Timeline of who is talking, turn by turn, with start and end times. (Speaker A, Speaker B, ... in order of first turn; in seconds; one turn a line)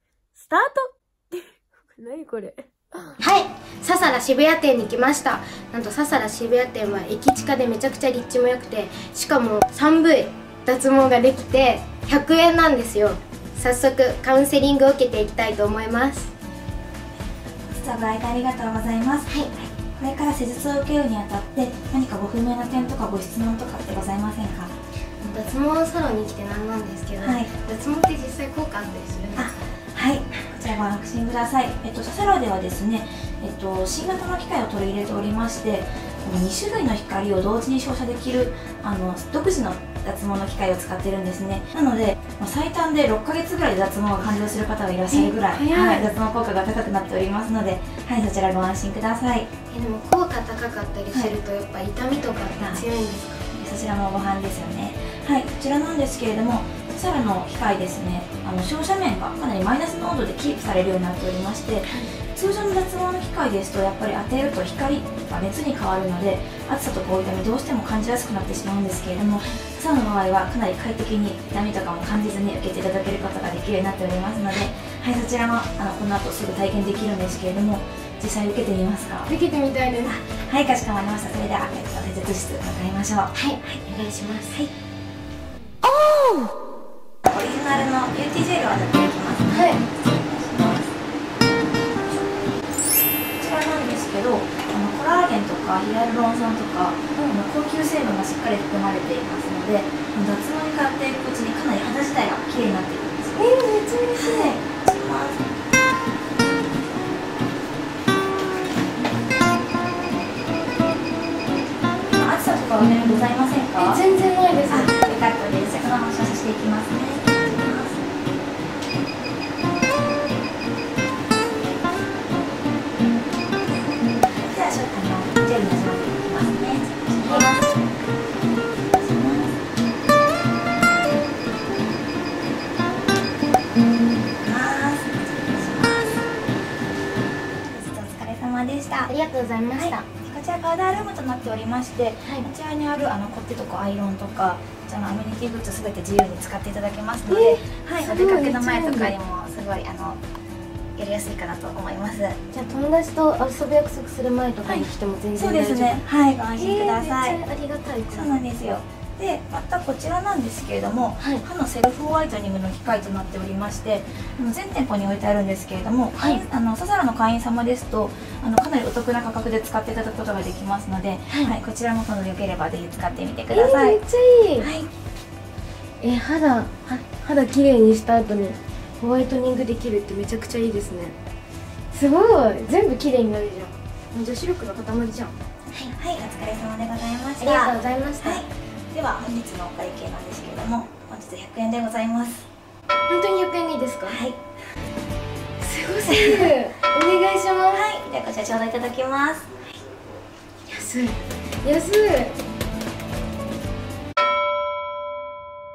Speaker A: 0.3-3.2
Speaker B: 3.2-16.3
Speaker C: 17.7-24.8
Speaker B: 19.3-19.5
Speaker B: 25.2-29.6
Speaker C: 27.2-27.5
Speaker C: 29.4-49.5
Speaker B: 45.1-46.1
Speaker B: 49.7-53.4
Speaker C: 53.5-79.3
Speaker B: 79.3-80.2
Speaker C: 80.0-83.8
Speaker B: 83.3-84.6
Speaker C: 87.3-91.0
Speaker B: 89.5-89.8
Speaker C: 93.4-103.4
Speaker B: 103.4-104.6
Speaker C: 104.2-105.4
Speaker C: 112.1-114.0
Speaker B: 113.8-114.9
Speaker C: 114.7-118.0
Speaker C: 124.4-127.9
Speaker B: 127.2-127.5
Speaker C: 129.0-129.6
Speaker C: 134.4-136.3
Speaker C: 137.7-139.1
Speaker B: 139.1-140.1
Speaker C: 139.8-150.2
Speaker B: 147.3-149.2
Speaker C: 151.0-152.4
Speaker B: 152.5-156.0
Speaker C: 154.6-157.4
Speaker B: 156.6-158.4
Speaker C: 158.1-174.0
Speaker B: 161.2-161.4
Speaker B: 166.2-166.4
Speaker B: 173.5-174.7
Speaker C: 174.6-174.9
Speaker B: 176.0-181.2
Speaker B: 181.9-185.9
Speaker C: 185.8-192.5
Speaker B: 187.4-188.5
Speaker B: 193.1-194.2
Speaker C: 194.1-194.4
Speaker B: 195.6-197.9
Speaker C: 196.1-196.6
Speaker C: 197.7-199.6
Speaker B: 200.7-202.4